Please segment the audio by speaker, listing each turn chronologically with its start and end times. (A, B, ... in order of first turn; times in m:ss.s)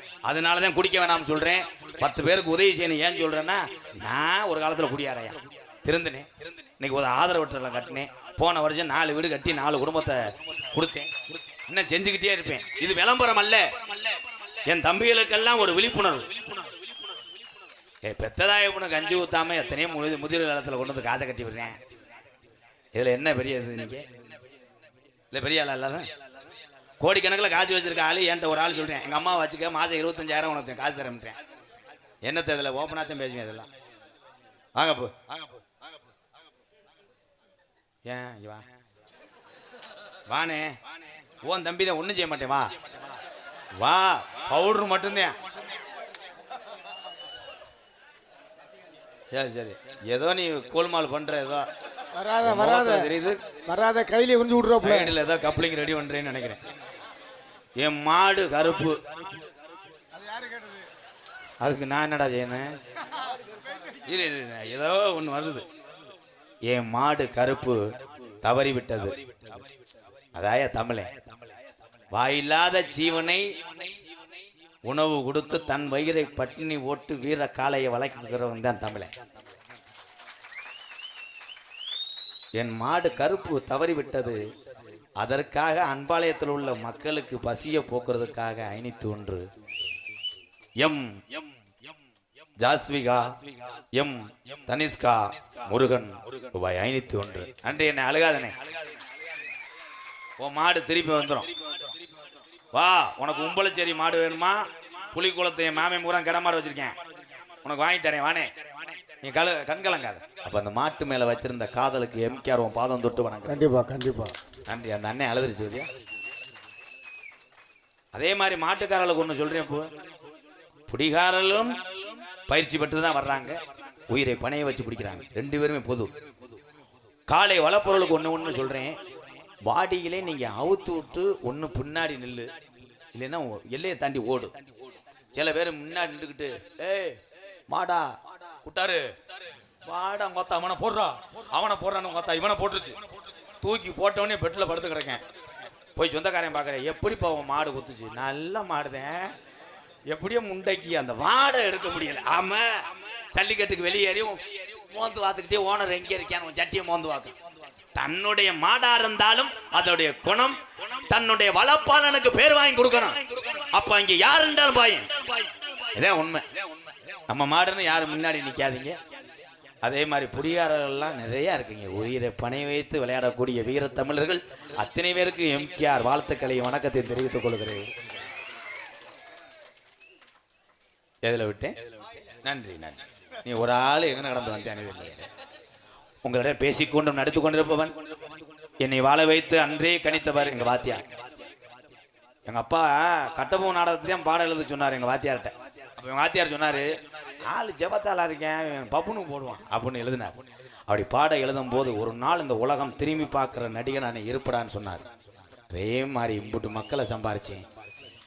0:00.2-0:11.1 A
0:11.7-0:13.7 A
0:14.7-0:16.4 A
0:18.0-0:21.8 A
0:22.9-0:24.1 A
0:25.3-0:26.1 A
0:27.0-0:31.4 A
0:32.2-0:33.7 A
0:34.7-0:35.5 A
0:38.0-0:38.6 A
0:40.3-0:40.8 A
0:41.4-0:42.7 A
0:43.8-0:45.4 A
0:49.3-0:51.7 A
0:52.1-0:53.1 B
0:52.4-0:53.4 A
0:53.6-0:55.2 B
0:54.8-0:56.6 A
0:57.8-0:59.0 A
1:00.3-1:00.7 B
1:01.6-1:02.7 A
1:03.9-1:05.6 A
1:06.7-1:09.2 A
1:10.3-1:11.1 A
1:12.1-1:13.5 A
1:14.8-1:19.1 A
1:22.6-1:24.4 A
1:25.2-1:29.5 A
1:30.8-1:31.2 A
1:32.6-1:33.3 A
1:33.9-1:38.6 A
1:40.4-1:41.5 A
1:42.7-1:46.9 A
1:47.6-1:48.5 A
1:49.2-1:53.6 A
1:53.4-1:54.3 B
1:54.7-1:55.9 A
1:58.1-1:59.9 A
2:00.9-2:01.8 A
2:02.5-2:06.1 A
2:07.3-2:09.0 A
2:09.6-2:12.5 A
2:13.1-2:14.6 A
2:15.3-2:19.1 A
2:19.8-2:23.0 A
2:23.6-2:25.2 A
2:26.0-2:29.3 A
2:30.1-2:37.3 A
2:37.9-2:46.5 A
2:47.3-2:49.0 A
2:49.8-2:57.9 A
3:01.2-3:05.3 A
3:06.2-3:07.9 A
3:08.8-3:11.0 A
3:12.5-3:17.0 A
3:17.5-3:25.1 A
3:25.7-3:27.6 A